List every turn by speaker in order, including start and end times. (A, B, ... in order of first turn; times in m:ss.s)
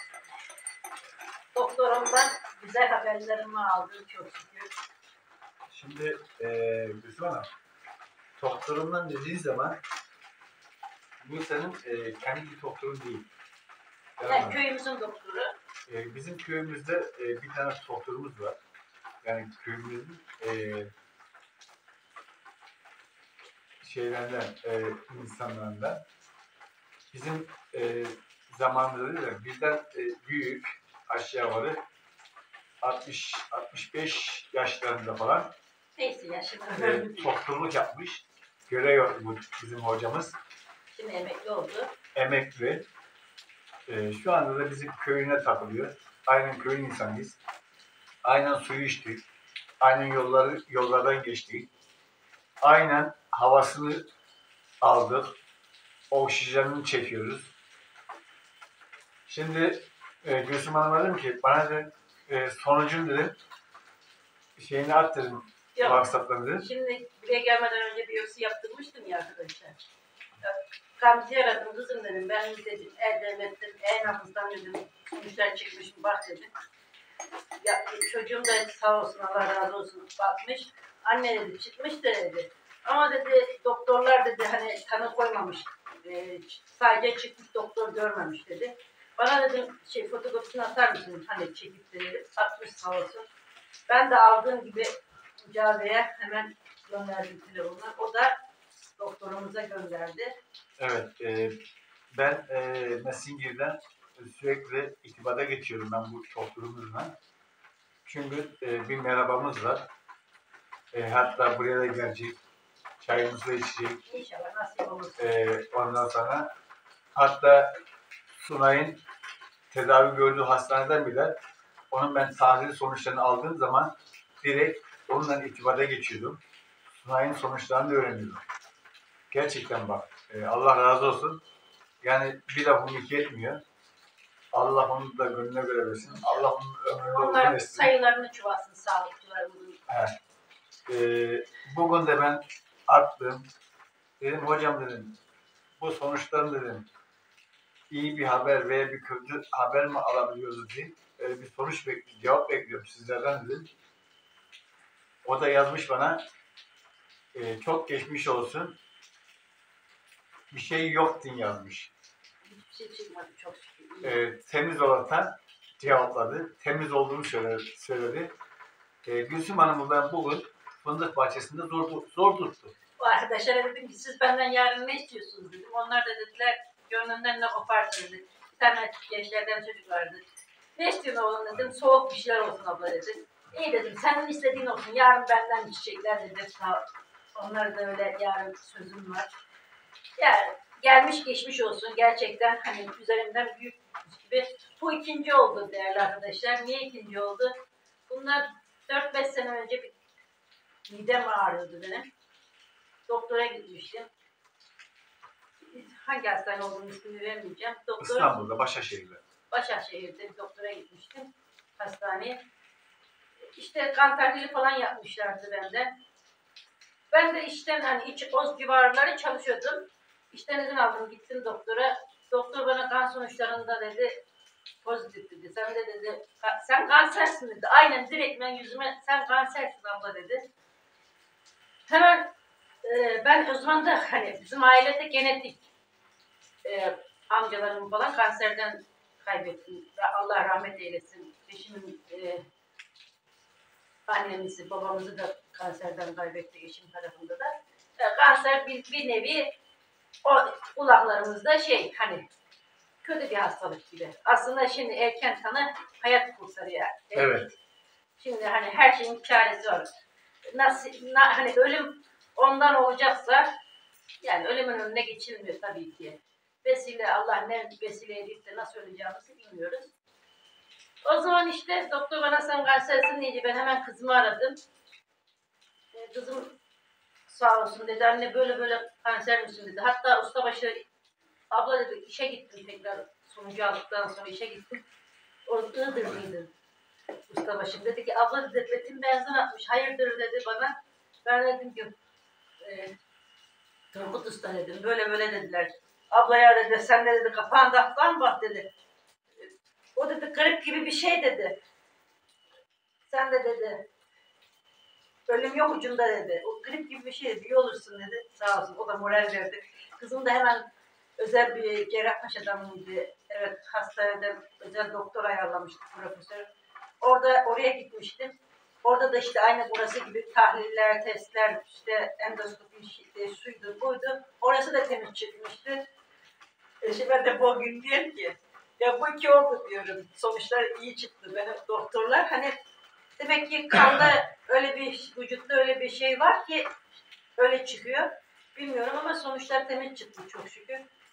0:01.6-0:04.7 A
0:05.7-0:07.5 B
0:08.4-0:09.8 B
0:11.2-0:13.3 B
0:14.2-0:14.6 B
0:14.2-0:15.5 A
0:15.9-0:18.6 B
0:19.2-0:20.9 B
0:23.8-0:26.0 B
0:27.1-0:31.8 B
0:32.8-0:35.5 B
0:36.0-0:37.3 A
0:36.7-0:40.4 B
0:40.9-0:41.9 A
0:42.2-0:42.9 B
0:43.9-0:47.4 B
0:48.2-0:49.2 B
0:49.8-0:51.7 B
0:52.6-0:54.1 B
0:54.8-0:55.3 B
0:56.1-0:57.5 B
0:59.3-1:03.4 B
1:04.6-1:06.7 B
1:05.8-1:06.0 A
1:06.6-1:09.8 A
1:10.4-1:16.5 A
1:17.6-1:33.3 A
1:33.9-1:38.4 A
1:39.0-1:40.4 A
1:40.8-1:41.6 B
1:42.1-1:47.2 B
1:48.0-1:49.9 B
1:50.9-1:52.4 B
1:53.0-1:54.0 B
1:54.1-1:55.4 A
1:55.2-1:56.5 B
1:57.2-1:57.8 B
1:58.4-1:59.0 B
1:59.7-2:01.4 B
2:01.9-2:06.4 B
2:06.9-2:08.4 B
2:09.3-2:11.4 B
2:12.0-2:13.6 B
2:14.5-2:17.9 B
2:17.1-2:19.8 A
2:19.9-2:20.2 B
2:20.9-2:23.5 B
2:24.2-2:25.2 B
2:25.8-2:26.9 B
2:27.9-2:33.7 B
2:35.2-2:36.2 B
2:37.3-2:38.8 B
2:40.5-2:41.9 B
2:42.4-2:44.2 A
2:44.0-2:48.3 B
2:49.0-2:52.7 B
2:53.0-3:00.2 A
3:00.8-3:06.8 A
3:07.4-3:09.3 A
3:10.2-3:17.6 A
3:18.1-3:19.9 A
3:20.9-3:22.1 A
3:23.1-3:24.1 A
3:25.6-3:28.3 A
3:28.0-3:29.2 B
3:29.5-3:32.4 A
3:33.6-3:36.0 A
3:37.1-3:44.2 A
3:44.8-3:50.4 A
3:51.9-3:55.6 A
3:56.6-4:02.4 A
4:04.1-4:09.5 A
4:10.2-4:12.3 A
4:13.0-4:17.4 A
4:17.2-4:17.5 B
4:18.2-4:19.9 A
4:20.5-4:23.5 A
4:24.2-4:29.9 A
4:31.0-4:34.6 A
4:35.9-4:36.6 A
4:37.3-4:40.9 A
4:41.5-4:44.8 A
4:45.5-4:46.5 A
4:47.3-4:52.0 A
4:52.6-4:53.0 A
4:53.9-4:58.7 A
4:59.4-5:01.6 A
5:03.1-5:03.9 A
5:05.3-5:16.5 A
5:17.0-5:25.8 A
5:26.8-5:32.6 A
5:33.2-5:36.7 A
5:37.4-5:40.9 A